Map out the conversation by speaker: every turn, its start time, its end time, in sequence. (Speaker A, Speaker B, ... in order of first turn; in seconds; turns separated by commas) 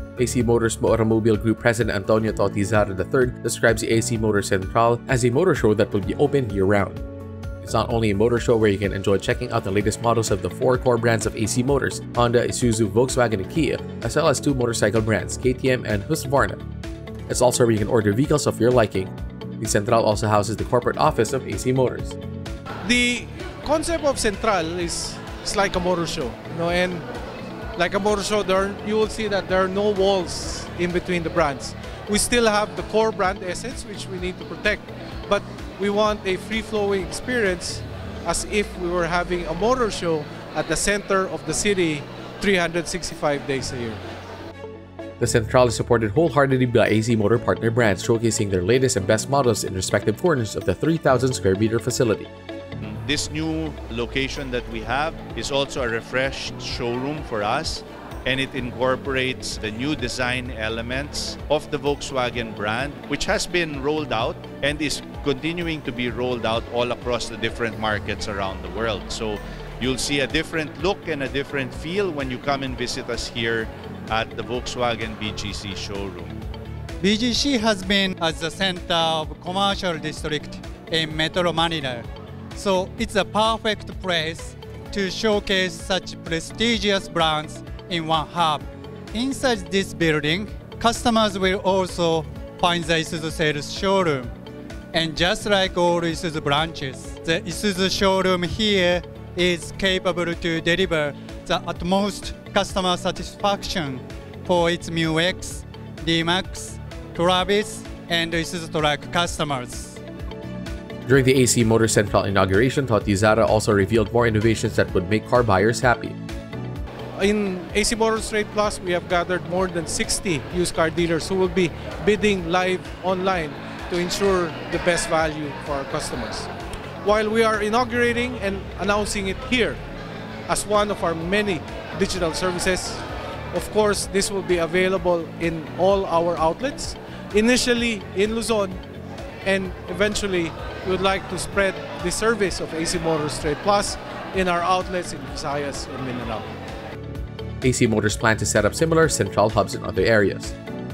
Speaker A: 0.2-7.0, Speaker A: 7.6-16.6, Speaker A: 17.3-22.1, Speaker B: 22.8-27.1, Speaker B: 27.8-44.0, Speaker A: 45.2-52.3, Speaker C: 52.8-76.4, Speaker D: 77.0-94.3, Speaker D: 94.9-110.0, Speaker A: 111.0-116.2, Speaker B: 117.2-126.5, Speaker B: 127.0-129.8, Speaker B: 130.5-138.8, Speaker B: 139.4-146.5, Speaker A: 147.6-150.5